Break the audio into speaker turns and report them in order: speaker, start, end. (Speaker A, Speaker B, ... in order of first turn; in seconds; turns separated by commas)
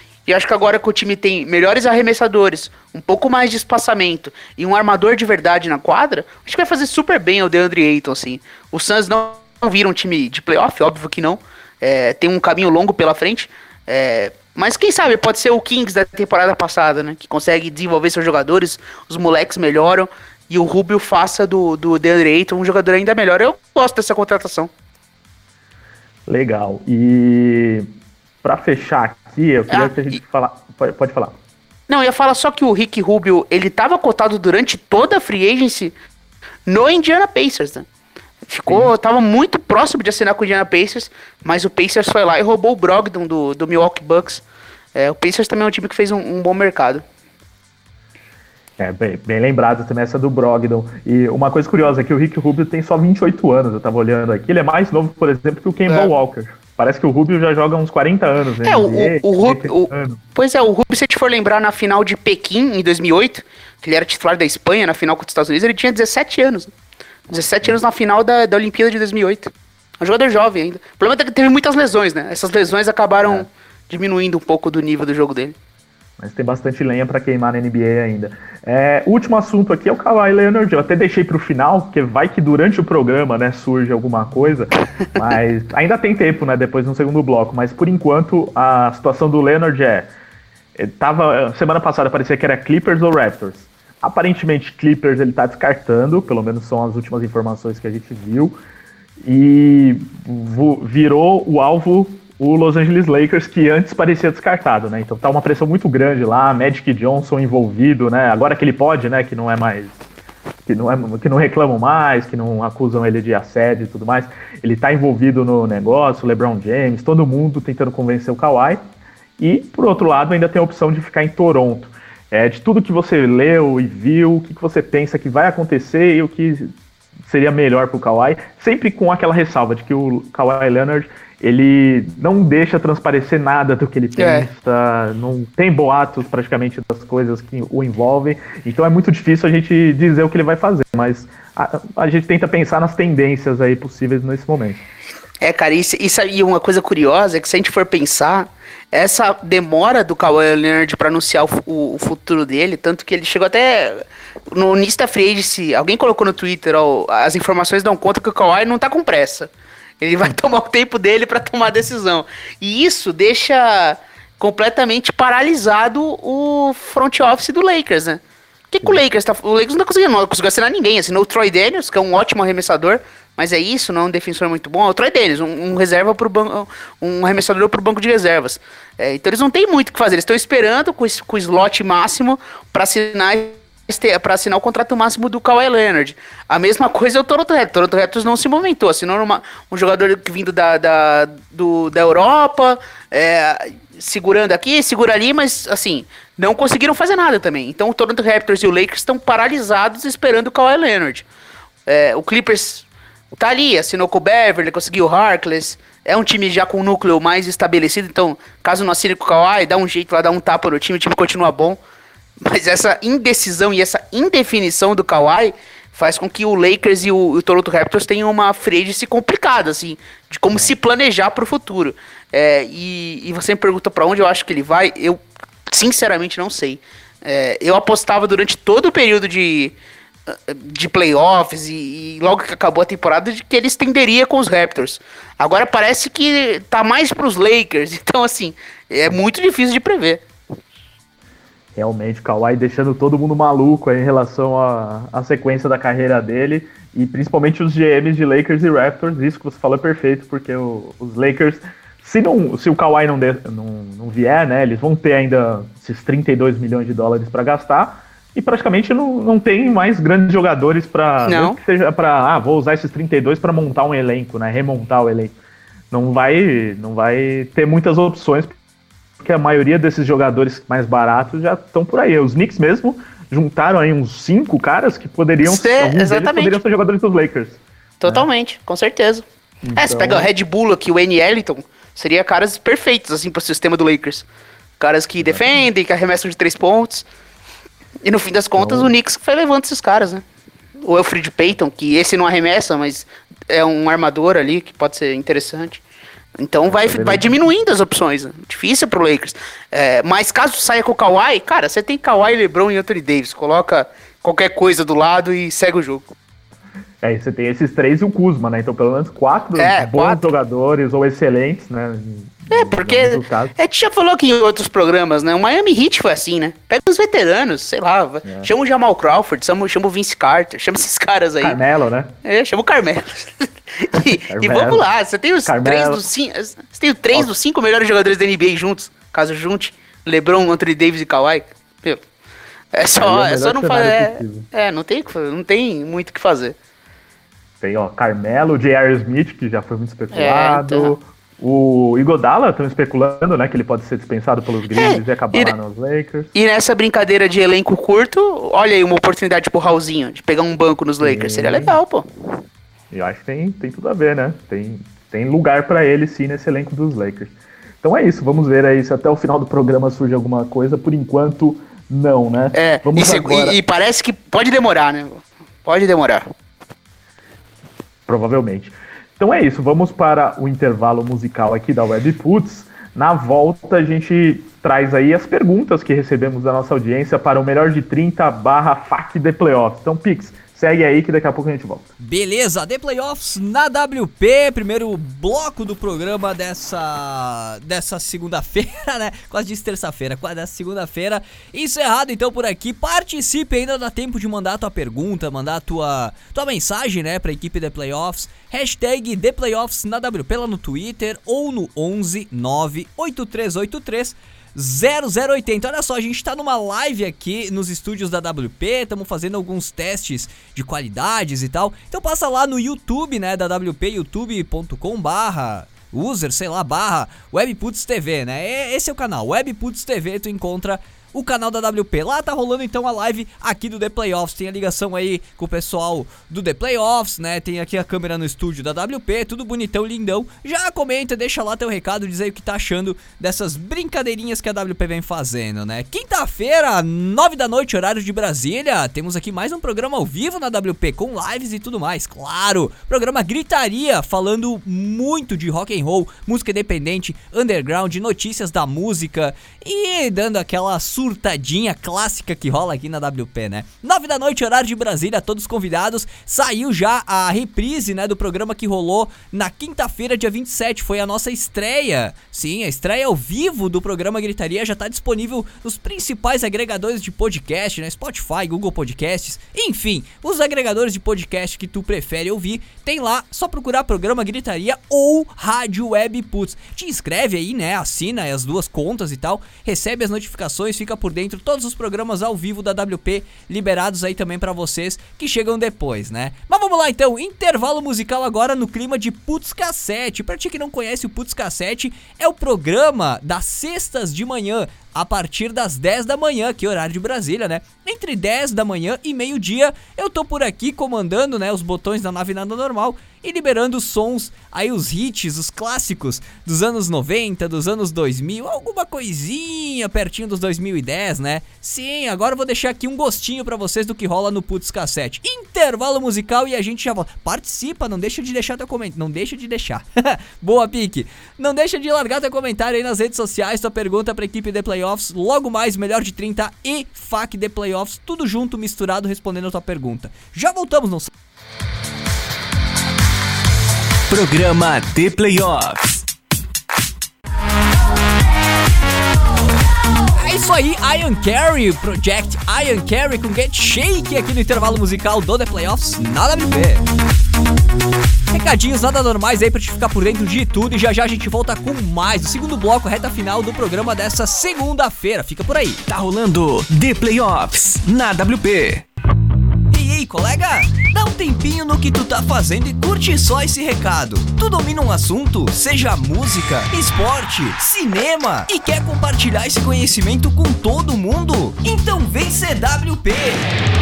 Speaker A: 0.2-24.7, Speaker B: 26.3-27.9, Speaker B: 28.4-31.4, Speaker A: 29.7-30.0, Speaker A: 31.9-35.9, Speaker A: 36.7-37.9, Speaker A: 38.5-44.4, Speaker B: 38.7-38.9, Speaker A: 44.9-47.0, Speaker B: 48.8-60.2, Speaker A: 58.6-66.7, Speaker A: 67.3-75.5, Speaker B: 76.2-90.1, Speaker B: 90.8-98.6, Speaker B: 99.2-110.0, Speaker B: 110.7-118.8, Speaker B: 119.4-126.7, Speaker B: 127.2-144.8, Speaker A: 134.2-134.5, Speaker A: 145.4-159.5, Speaker A: 160.0-201.3, Speaker A: 201.9-211.8, Speaker A: 212.4-229.8, Speaker A: 230.3-240.2, Speaker B: 241.8-265.3, Speaker A: 261.2-261.6, Speaker B: 265.9-268.5, Speaker B: 269.2-278.3, Speaker A: 275.4-276.6, Speaker A: 278.0-279.2, Speaker B: 279.6-280.3, Speaker A: 279.8-284.2, Speaker A: 284.8-287.0, Speaker A: 288.0-290.2, Speaker B: 288.6-288.9, Speaker A: 290.8-295.8, Speaker A: 296.4-306.1, Speaker B: 296.6-297.4, Speaker B: 307.0-313.5, Speaker A: 309.6-310.3, Speaker A: 312.5-321.6, Speaker B: 318.2-318.5, Speaker B: 321.4-322.1, Speaker A: 322.2-332.0, Speaker B: 324.2-324.8, Speaker B: 325.4-326.0, Speaker A: 332.7-336.5, Speaker B: 333.0-334.4, Speaker B: 337.6-346.3, Speaker A: 340.1-340.9, Speaker A: 344.7-345.5, Speaker A: 346.3-352.1, Speaker B: 351.0-351.8, Speaker B: 352.9-363.6, Speaker A: 362.5-366.2, Speaker B: 368.1-381.9, Speaker C: 382.0-531.1, Speaker D: 534.1-536.0, Speaker C: 540.1-546.8, Speaker C: 548.3-555.8, Speaker D: 555.9-558.8, Speaker C: 559.7-573.4